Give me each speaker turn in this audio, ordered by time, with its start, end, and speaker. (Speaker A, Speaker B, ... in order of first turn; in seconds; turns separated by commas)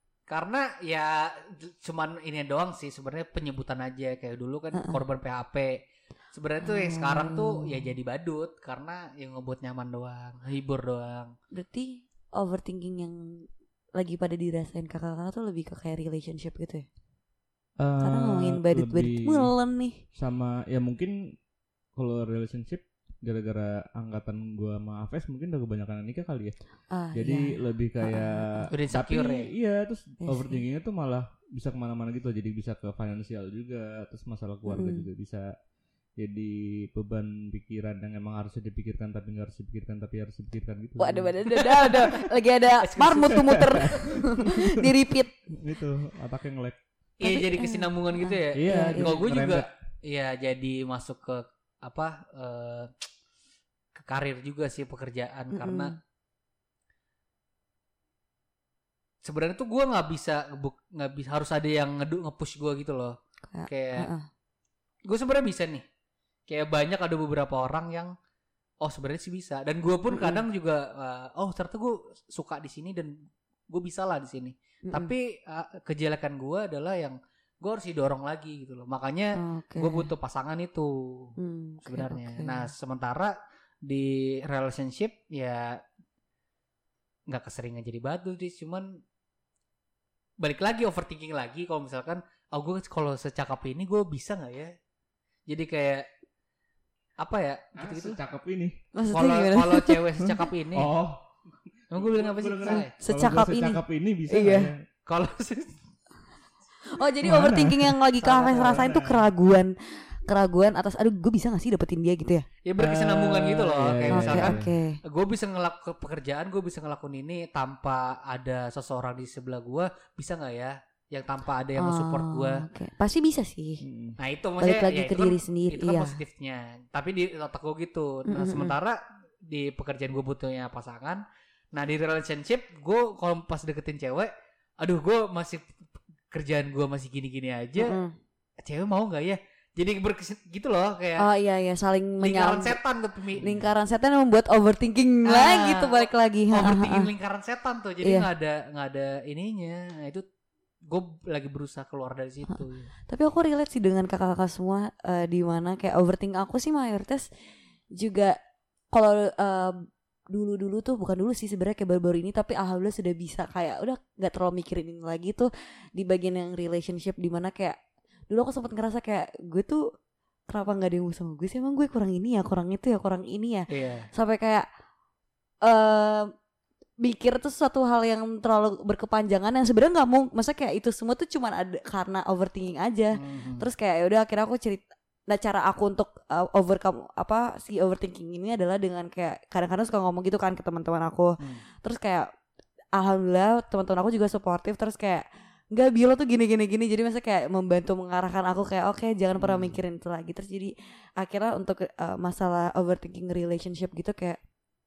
Speaker A: 0.3-5.8, Speaker B: 4.7-5.0, Speaker A: 6.3-11.3, Speaker B: 6.6-7.9, Speaker B: 11.5-16.9, Speaker C: 17.8-19.5, Speaker B: 18.0-20.0, Speaker C: 20.1-21.4, Speaker C: 22.0-26.6, Speaker B: 26.9-28.7, Speaker C: 27.1-35.5, Speaker A: 28.7-29.5, Speaker B: 30.2-30.6, Speaker B: 34.7-35.1, Speaker C: 36.2-41.4, Speaker B: 41.0-45.4, Speaker A: 41.6-42.2, Speaker A: 42.8-43.9, Speaker C: 43.4-44.9, Speaker C: 45.5-46.8, Speaker A: 47.2-53.1, Speaker B: 47.2-49.2, Speaker C: 48.5-49.7, Speaker A: 54.0-56.0, Speaker B: 55.5-55.9, Speaker A: 59.2-64.1, Speaker B: 63.5-64.3, Speaker A: 65.1-65.8, Speaker A: 66.5-68.1, Speaker A: 68.8-73.1, Speaker B: 70.1-70.4, Speaker A: 73.7-81.3, Speaker B: 74.9-75.1, Speaker B: 79.4-80.1, Speaker B: 81.4-82.7, Speaker A: 81.8-83.3, Speaker A: 83.9-85.8, Speaker A: 87.3-89.0, Speaker A: 90.4-94.8, Speaker A: 95.5-96.1, Speaker A: 97.2-98.2, Speaker C: 97.8-98.8, Speaker B: 99.0-100.0, Speaker A: 99.1-100.9, Speaker C: 100.2-101.3, Speaker C: 101.9-104.8, Speaker A: 101.9-102.9, Speaker B: 102.7-104.7, Speaker A: 105.1-105.8, Speaker B: 106.9-112.5, Speaker C: 107.2-108.0, Speaker A: 108.2-108.9, Speaker C: 108.6-109.2, Speaker A: 112.7-122.7, Speaker C: 112.8-114.7, Speaker B: 114.1-115.0, Speaker B: 121.8-123.8, Speaker C: 123.8-124.2, Speaker A: 124.2-131.2, Speaker B: 124.6-126.2, Speaker B: 128.3-128.8, Speaker A: 131.7-135.7, Speaker A: 136.3-138.0, Speaker B: 137.8-138.2, Speaker A: 138.6-141.3, Speaker B: 141.2-142.8, Speaker A: 142.2-143.5, Speaker B: 143.4-147.1, Speaker C: 143.4-143.7, Speaker A: 145.3-150.2, Speaker A: 150.9-152.9, Speaker B: 152.5-157.3, Speaker B: 157.9-158.4, Speaker B: 158.9-167.8, Speaker B: 168.3-169.8, Speaker B: 170.5-174.7, Speaker A: 173.7-174.1, Speaker B: 175.6-176.3, Speaker B: 177.0-192.3, Speaker A: 183.2-183.7, Speaker B: 192.9-204.4, Speaker C: 199.4-199.8